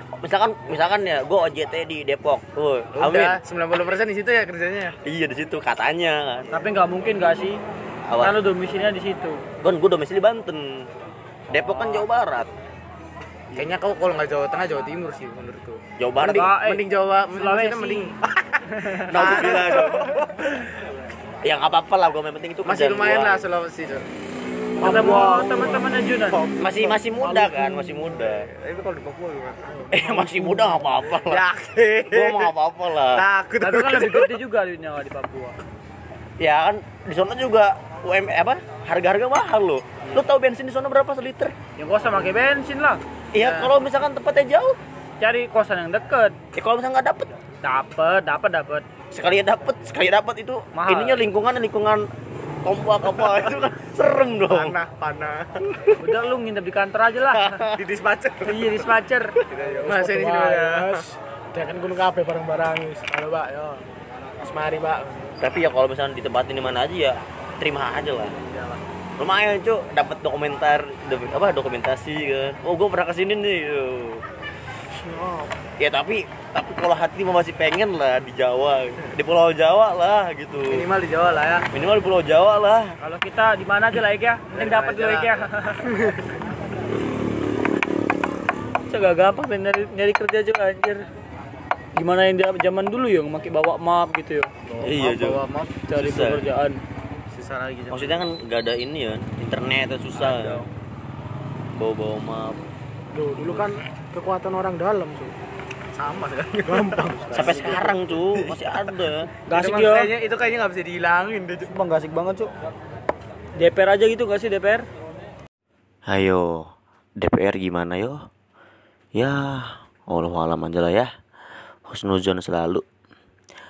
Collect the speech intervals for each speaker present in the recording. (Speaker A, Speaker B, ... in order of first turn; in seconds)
Speaker A: 0.2-3.4, 5.0-6.5, 8.1-8.3, 9.6-10.9, 11.5-12.5, 16.0-16.5, 19.1-20.1, 21.4-23.4, 26.6-28.4, 29.9-31.4, 32.1-33.2, 36.4-41.5, 43.3-44.8, 46.5-47.3, 49.1-52.0, 52.6-54.8, 57.3-57.8, 65.4-68.3, 69.2-74.2, 75.8-80.9, 81.7-82.9, 94.8-95.4, 95.9-96.5, 97.9-100.6, 101.8-102.6, 107.3-109.3, 116.1-118.2, 119.1-121.1, 121.8-122.8
Speaker B: 2.9-4.9, 13.5-20.6, 22.6-24.1, 24.9-27.0, 28.2-29.7, 31.2-34.4, 43.4-43.7, 54.5-56.0, 57.7-58.9, 59.4-61.0, 68.4-68.8, 75.0-75.5, 80.7-81.7, 84.5-85.3, 85.8-86.3, 94.7-95.9, 97.3-98.2, 100.1-100.7, 106.0-108.0, 109.5-111.8
Speaker C: 6.5-7.6, 8.2-9.4, 11.5-12.1, 16.2-18.1, 18.7-19.2, 24.8-26.4, 33.6-35.5, 41.8-43.0, 45.2-46.4, 47.6-48.8, 50.7-51.2, 56.0-57.6, 58.4-59.4, 83.0-85.9, 88.9-91.0, 92.0-94.5, 95.9-96.8, 109.5-110.1, 111.7-112.5, 113.5-114.8
Speaker D: 19.6-20.1, 24.8-25.8, 27.1-28.3, 29.6-30.9, 59.8-63.8, 64.4-65.3, 103.1-105.3, 106.6-107.9, 108.7-108.9